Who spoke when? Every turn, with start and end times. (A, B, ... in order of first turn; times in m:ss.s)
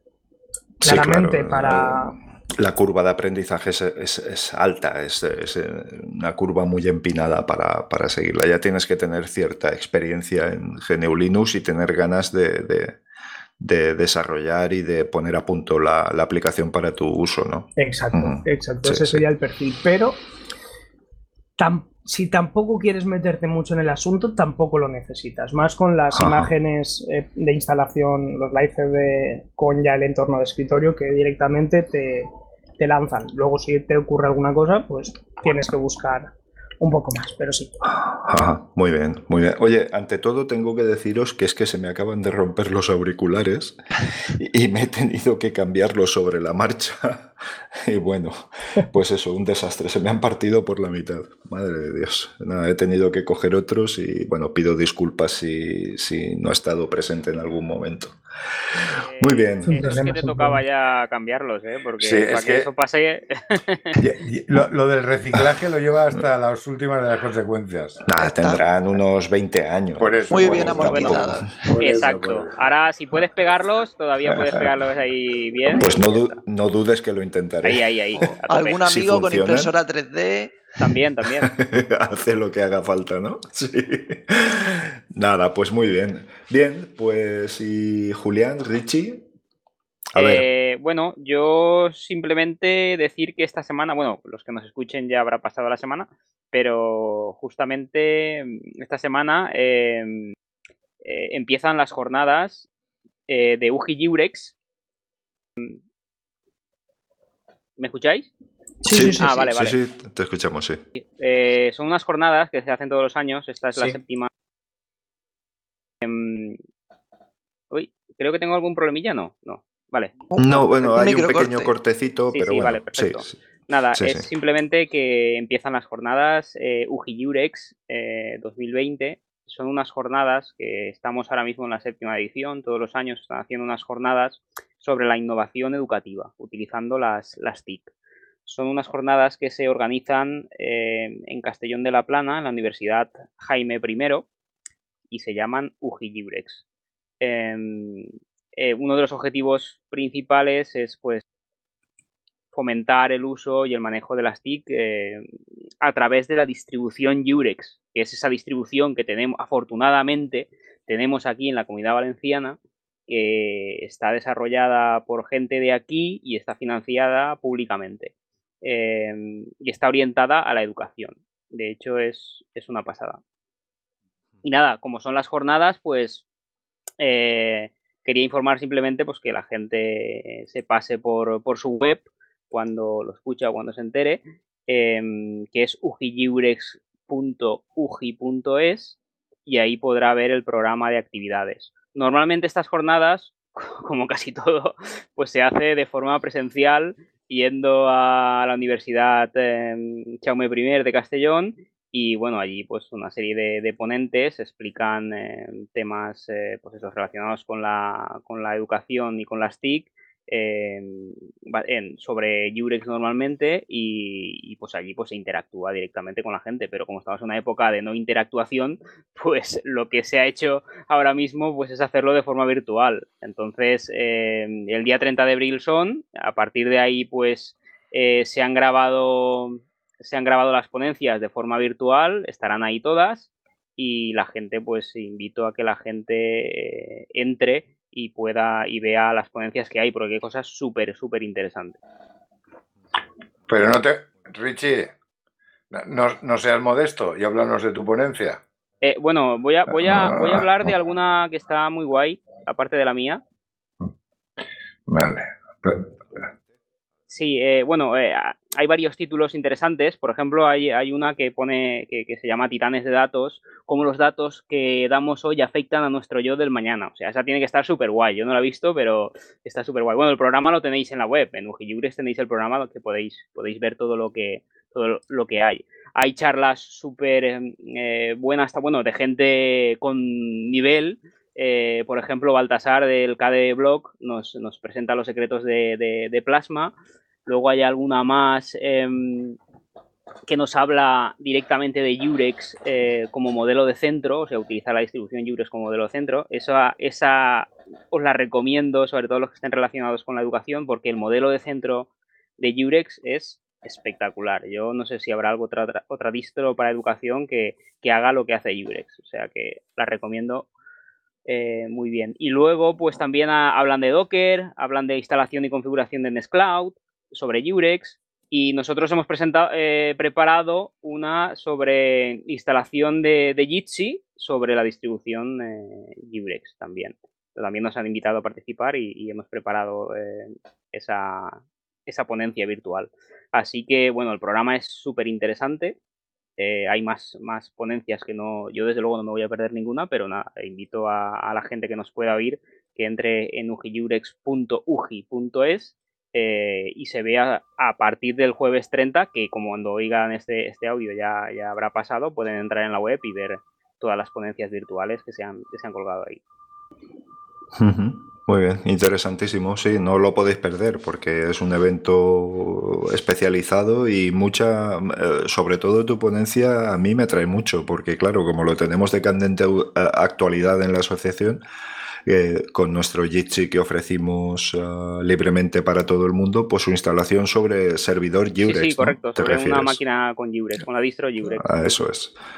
0:00.8-0:02.2 A
0:00.8-0:13.0 B
0:13.6-0:19.2 B
0:17.8-0:20.2 A
0:21.6-0:37.7 A
0:26.1-0:26.5 B
0:37.8-0:43.8 B
0:44.3-0:58.2 B
0:58.8-0:59.9 B
0:59.0-1:04.0 C
0:59.6-1:00.6 A
1:02.0-1:02.7 D
1:04.0-1:08.0 D
1:08.0-1:11.5 B
1:08.4-1:08.6 E
1:10.0-1:12.5 D
1:10.3-1:11.6 E
1:10.8-1:11.2 C
1:11.8-1:16.4 C
1:14.3-1:14.7 D
1:15.7-1:18.3 B
1:17.6-1:18.8 C
1:18.5-1:20.6 E
1:18.8-1:19.7 B
1:20.8-1:21.5 C
1:21.4-1:29.2 B
1:30.1-1:30.4 B
1:30.2-1:40.3 C
1:41.0-1:42.7 C
1:43.3-1:44.5 C
1:47.8-1:48.3 C
1:48.8-1:49.3 A
1:48.9-1:50.8 B
1:49.1-1:49.7 C
1:51.0-1:54.3 C
1:56.0-1:56.6 C
1:57.7-2:00.1 C
2:00.3-2:01.7 E
2:00.4-2:03.3 B
2:02.3-2:17.9 C
2:04.0-2:04.2 B
2:18.4-2:24.3 C
2:25.1-2:26.6 C
2:27.2-2:31.2 C
2:32.5-2:35.2 C
2:35.8-2:53.2 C
2:54.4-2:56.2 C
2:57.0-4:01.8 C
4:03.5-4:04.9 D
4:05.7-4:08.4 D
4:08.8-4:13.2 C
4:09.7-4:10.4 D
4:14.9-4:16.3 D
4:17.1-4:46.7 C
4:47.2-4:49.4 C
4:50.3-5:10.4 C
5:11.2-5:35.8 C
5:36.4-5:56.2 C
5:57.6-6:11.4 B
6:12.0-6:19.8 B
6:18.4-6:21.5 C
6:21.4-6:22.1 B